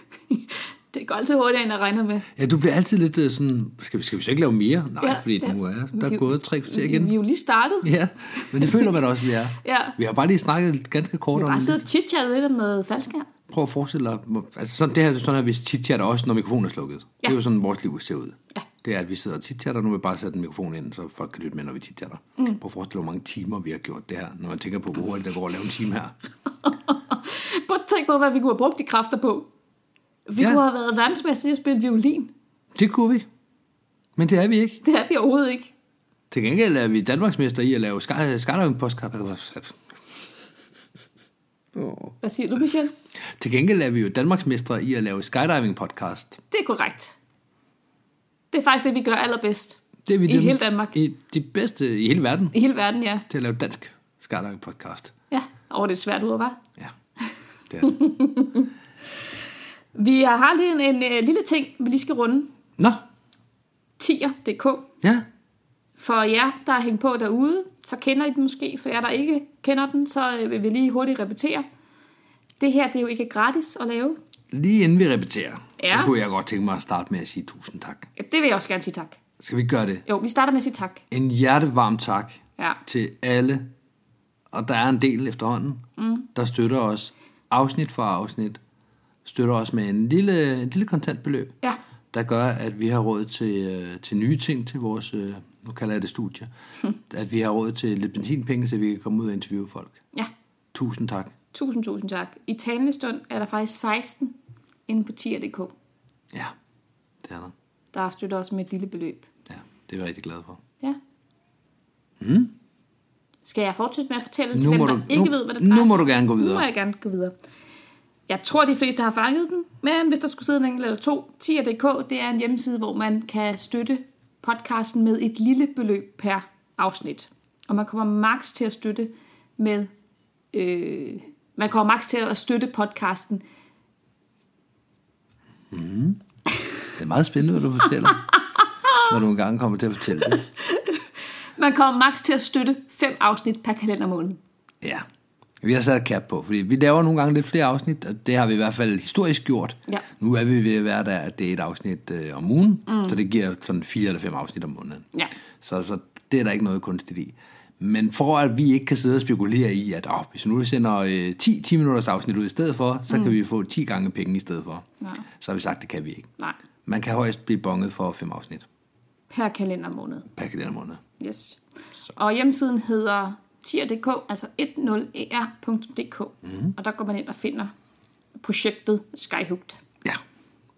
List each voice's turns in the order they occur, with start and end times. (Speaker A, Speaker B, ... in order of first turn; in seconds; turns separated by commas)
Speaker A: 0.3-2.3, Speaker B: 2.3-7.2, Speaker A: 5.0-8.9, Speaker B: 7.8-11.8, Speaker A: 9.6-10.0, Speaker A: 11.3-13.3, Speaker B: 13.5-26.1, Speaker A: 26.6-29.5, Speaker A: 30.3-32.3, Speaker B: 32.7-33.3, Speaker B: 34.1-34.8, Speaker A: 34.8-35.7, Speaker B: 36.3-39.8, Speaker B: 41.7-42.1, Speaker A: 42.2-42.9, Speaker B: 43.4-46.4, Speaker A: 46.5-47.1, Speaker A: 48.5-51.0, Speaker B: 50.0-52.5, Speaker A: 52.5-53.2, Speaker B: 53.3-55.1, Speaker A: 55.3-56.6, Speaker B: 57.7-58.0, Speaker A: 57.8-58.7, Speaker A: 59.9-62.5, Speaker B: 62.8-63.0, Speaker A: 64.0-64.9, Speaker A: 66.0-71.7, Speaker A: 72.6-74.2, Speaker B: 74.5-78.1, Speaker A: 75.8-76.1, Speaker A: 78.2-79.2, Speaker B: 79.4-80.0, Speaker A: 80.1-81.0, Speaker B: 81.1-83.7, Speaker B: 84.5-85.8, Speaker A: 86.0-86.3, Speaker B: 86.3-88.6, Speaker B: 89.2-91.5, Speaker B: 92.1-96.5, Speaker B: 97.0-100.0, Speaker B: 100.7-101.3, Speaker A: 101.5-104.3, Speaker A: 104.9-105.7, Speaker B: 107.2-107.5, Speaker A: 107.9-109.3, Speaker B: 109.5-110.6, Speaker B: 112.2-112.5, Speaker A: 113.4-117.3, Speaker B: 114.5-116.7, Speaker A: 118.3-129.9, Speaker A: 130.5-133.4, Speaker B: 135.7-136.2, Speaker B: 136.9-138.3, Speaker B: 139.0-140.4, Speaker A: 140.6-141.0, Speaker A: 141.6-144.4, Speaker B: 145.6-155.1, Speaker A: 152.9-153.2, Speaker B: 155.6-166.3, Speaker B: 166.8-168.7, Speaker A: 169.3-170.3, Speaker B: 170.3-171.0, Speaker A: 171.2-177.7, Speaker B: 176.5-176.7, Speaker A: 178.4-179.8